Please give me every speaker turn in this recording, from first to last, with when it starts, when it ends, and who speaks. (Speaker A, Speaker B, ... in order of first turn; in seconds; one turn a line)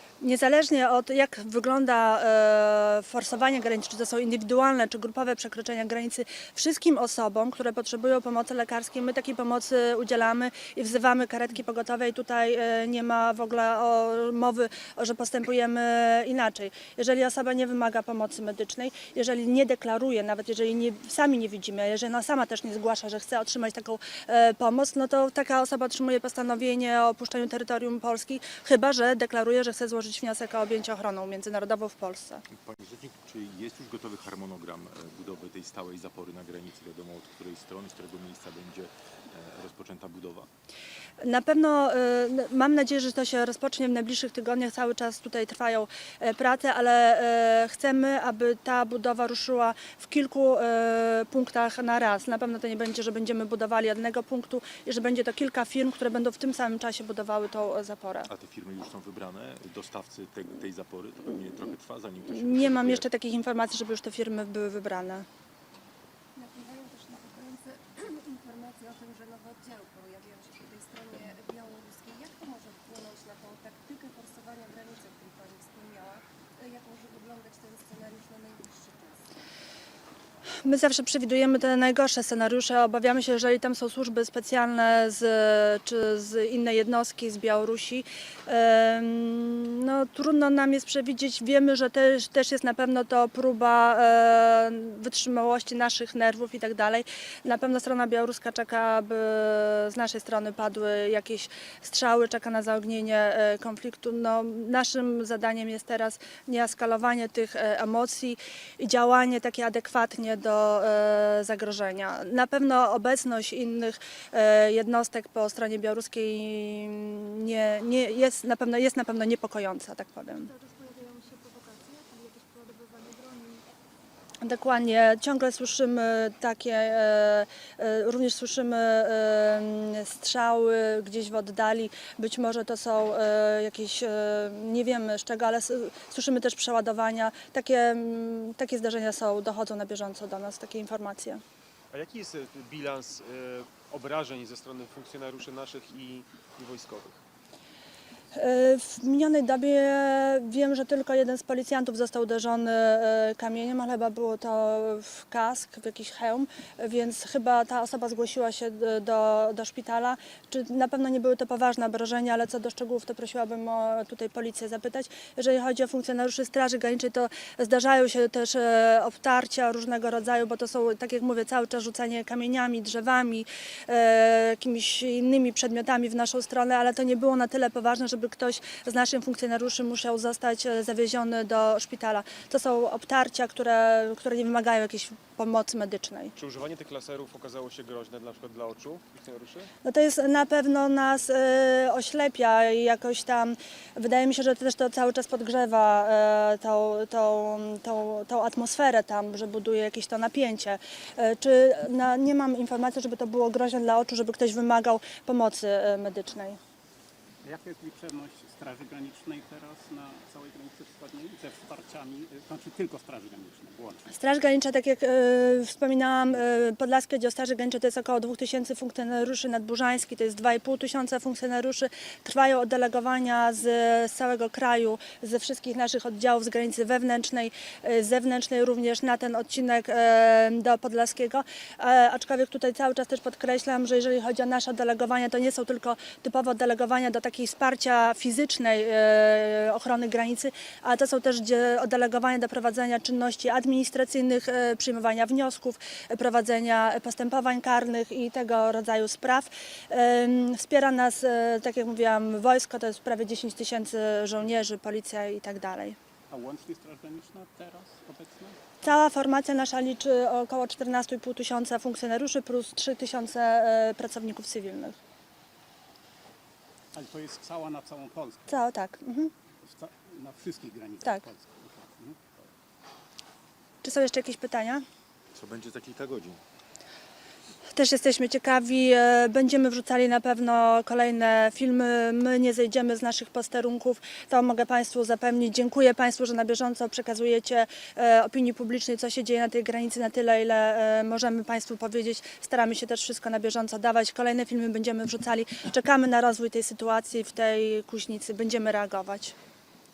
Speaker A: 0.2-32.4
Speaker B: 32.5-40.5
Speaker A: 41.2-58.3
Speaker B: 58.3-63.1
Speaker A: 62.3-65.2
Speaker C: 66.3-79.3
Speaker A: 80.6-120.5
Speaker D: 120.4-123.7
Speaker A: 124.4-141.4
Speaker E: 141.9-147.2
Speaker A: 148.3-186.3
Speaker E: 186.3-189.7
Speaker A: 189.8-206.6
Speaker F: 207.4-214.1
Speaker A: 214.1-256.0
Speaker F: 256.3-258.7
Speaker A: 258.8-265.0
Speaker F: 266.9-268.6
Speaker A: 268.5-269.3
Speaker F: 269.6-272.5
Speaker A: 273.8-274.8
Speaker B: 275.3-276.4
Speaker A: 277.7-299.3